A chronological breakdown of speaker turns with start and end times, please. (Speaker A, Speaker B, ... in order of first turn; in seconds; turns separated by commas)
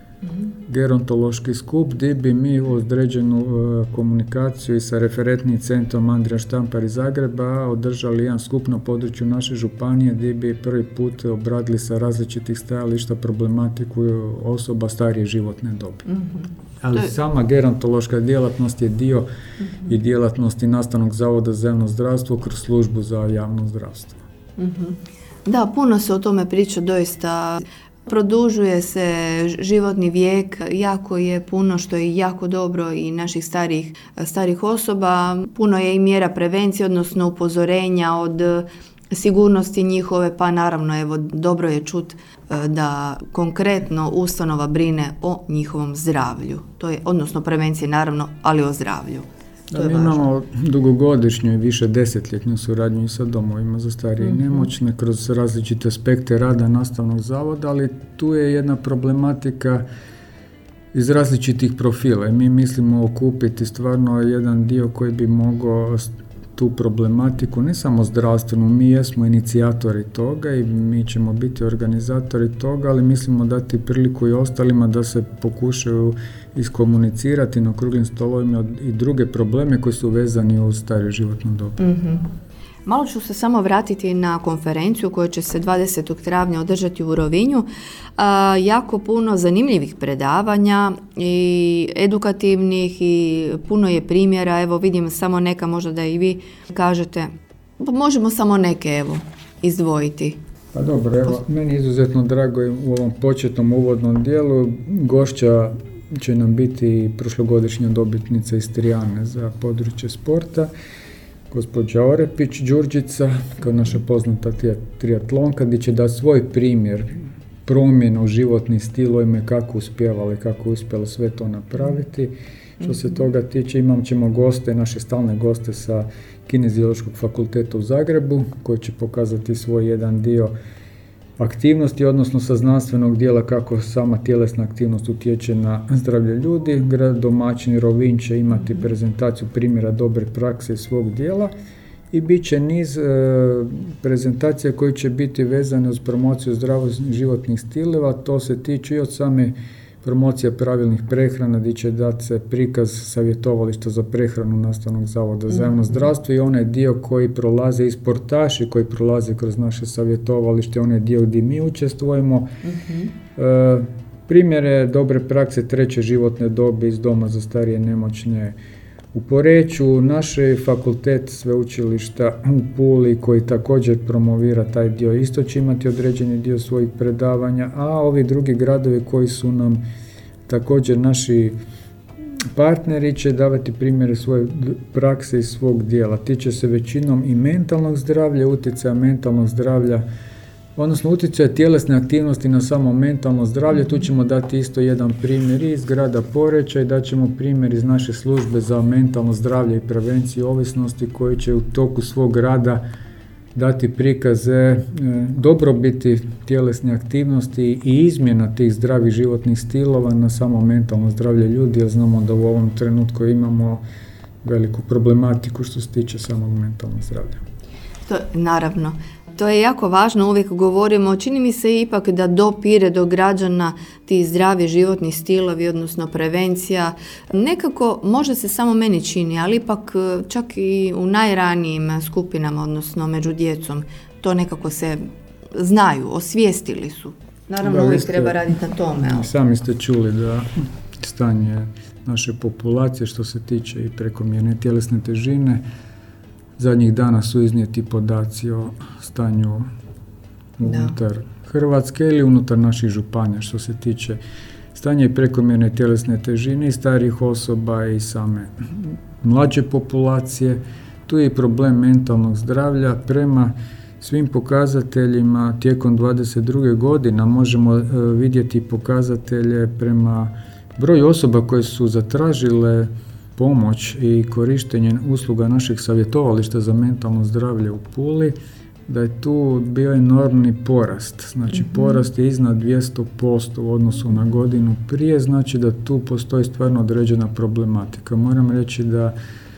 Speaker A: 0.7-16.1, Speaker B: 16.1-16.4, Speaker A: 16.8-19.2, Speaker A: 19.9-24.2, Speaker B: 24.6-50.3, Speaker A: 49.7-59.8, Speaker A: 60.9-81.8, Speaker B: 81.8-82.2, Speaker B: 82.8-100.4, Speaker A: 100.7-110.7, Speaker A: 111.5-130.5, Speaker A: 131.4-141.5, Speaker A: 142.1-162.5, Speaker B: 162.6-163.1, Speaker A: 163.3-168.6, Speaker A: 169.1-179.8, Speaker A: 180.5-181.6, Speaker A: 182.5-190.0, Speaker A: 190.8-202.8, Speaker A: 203.5-213.8, Speaker A: 214.4-217.4, Speaker B: 218.1-239.3, Speaker A: 237.6-238.4, Speaker A: 239.0-245.6, Speaker A: 246.6-249.7, Speaker A: 250.6-254.2, Speaker B: 250.6-250.9, Speaker A: 254.7-278.4, Speaker A: 278.9-289.1